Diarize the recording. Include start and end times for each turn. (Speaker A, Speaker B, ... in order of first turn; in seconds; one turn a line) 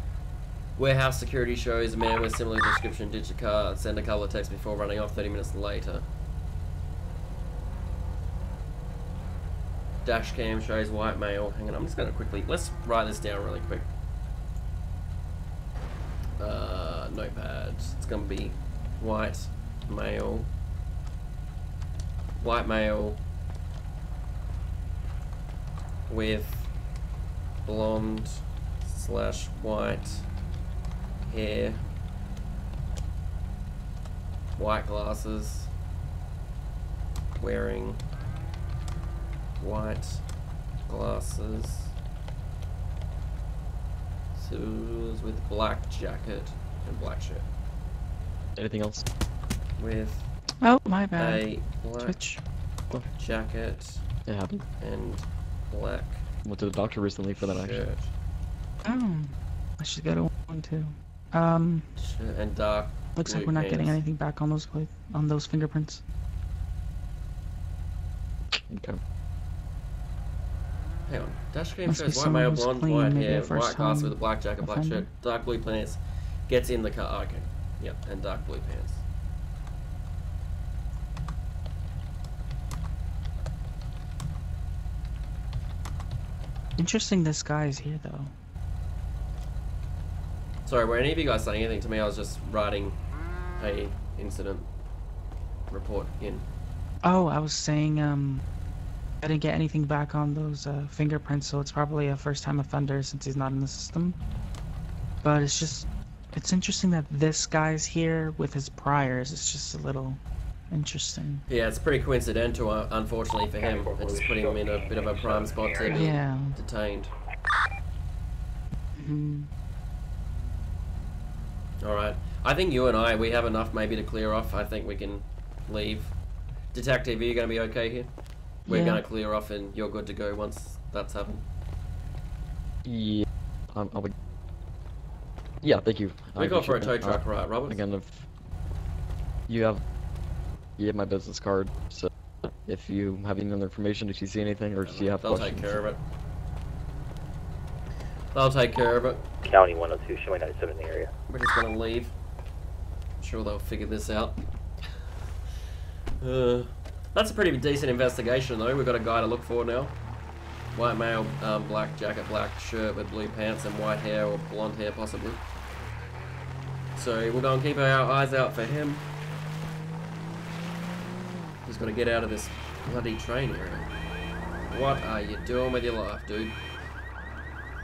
Speaker A: 0.8-6.1
Speaker A: 10.0-13.9
Speaker A: 16.4-20.5
Speaker A: 22.4-23.2
Speaker A: 26.1-26.7
Speaker A: 27.6-30.2
Speaker A: 31.3-31.8
Speaker A: 34.6-35.7
Speaker A: 37.4-38.0
Speaker A: 39.6-40.2
Speaker A: 40.9-41.9
Speaker A: 44.4-47.5
Speaker B: 48.6-49.0
Speaker A: 49.8-50.3
Speaker C: 50.6-51.4
Speaker A: 51.1-52.2
Speaker C: 52.0-52.4
Speaker A: 53.0-54.0
Speaker B: 54.2-54.6
Speaker A: 54.8-56.2
Speaker B: 56.4-57.9
Speaker A: 57.4-58.1
Speaker C: 58.8-61.9
Speaker A: 62.0-64.0
Speaker C: 63.1-66.0
Speaker B: 68.5-69.0
Speaker A: 71.1-79.0
Speaker C: 71.9-75.1
Speaker C: 86.8-88.3
Speaker A: 90.7-93.0
Speaker A: 93.6-94.7
Speaker A: 95.7-96.5
Speaker C: 97.0-98.5
Speaker C: 99.2-104.2
Speaker C: 105.2-111.4
Speaker A: 111.5-117.1
Speaker D: 113.6-116.0
Speaker C: 115.9-116.6
Speaker C: 119.0-119.5
Speaker A: 121.8-126.1
Speaker A: 126.7-128.1
Speaker A: 128.7-131.4
Speaker C: 128.7-129.0
Speaker B: 132.8-134.1
Speaker B: 135.6-138.3
Speaker A: 136.4-137.8
Speaker B: 139.5-139.8
Speaker B: 140.8-145.8
Speaker A: 144.8-146.0
Speaker A: 148.3-149.2
Speaker D: 149.4-151.1
Speaker A: 151.3-152.1
Speaker A: 153.2-154.4
Speaker A: 156.2-159.9
Speaker A: 160.7-165.4
Speaker A: 166.9-169.0
Speaker A: 171.7-173.9
Speaker A: 174.7-176.6